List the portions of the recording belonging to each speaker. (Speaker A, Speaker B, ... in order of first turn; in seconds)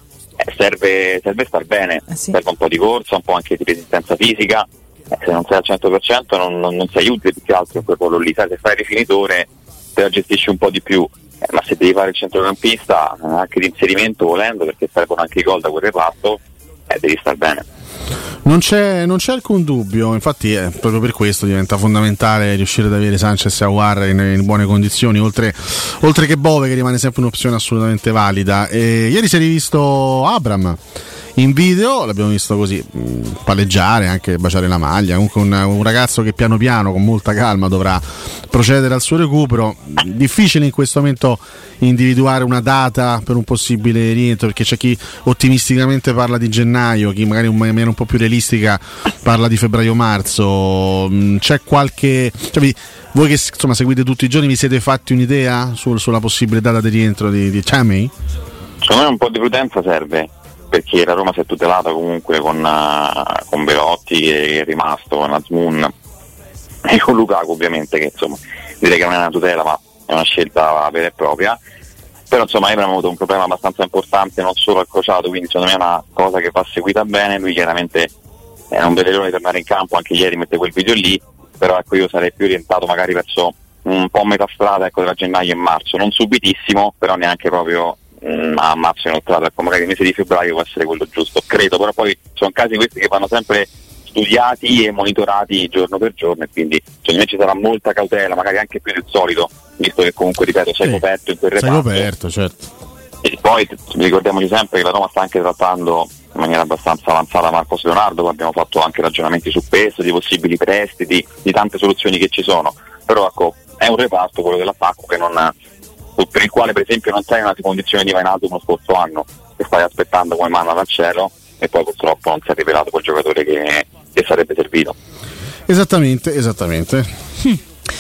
Speaker A: 0.4-17.6, 58.8-65.9, 66.9-71.6, 72.3-78.1, 78.7-102.1, 103.2-115.5, 116.2-124.9
Speaker B: 18.4-30.8, 31.4-58.1, 101.5-102.7, 125.7-127.1